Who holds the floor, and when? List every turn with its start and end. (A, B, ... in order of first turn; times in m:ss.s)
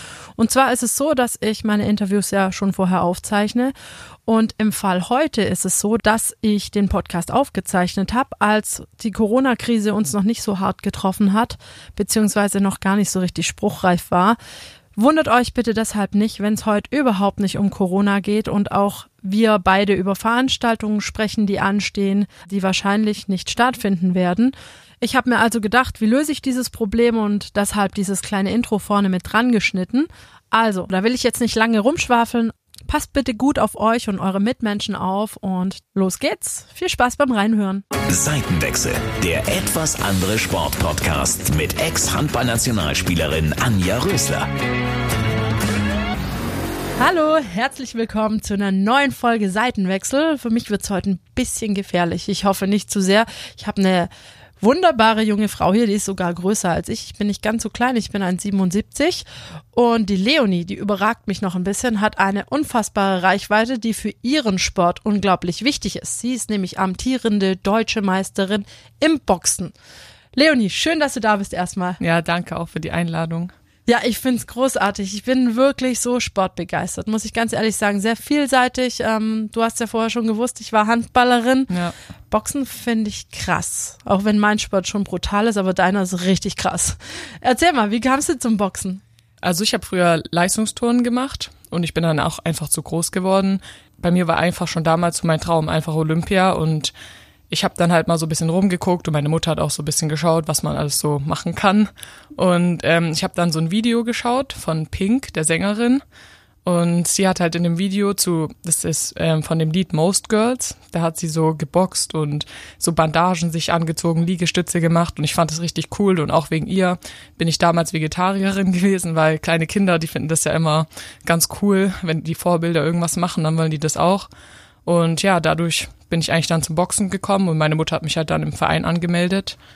0:00.4-0:03.7 A
0:04.3-0:14.4 A
0:15.0-0:37.8 A
0:38.1-0:44.4 B
0:47.0-1:09.7 A
1:10.3-1:12.0 A
1:12.0-1:13.5 C
1:13.9-1:21.7 A
1:22.3-1:29.0 A
1:29.4-1:36.9 C
1:37.5-1:46.0 C
1:46.6-2:04.3 C
2:04.8-2:09.6 C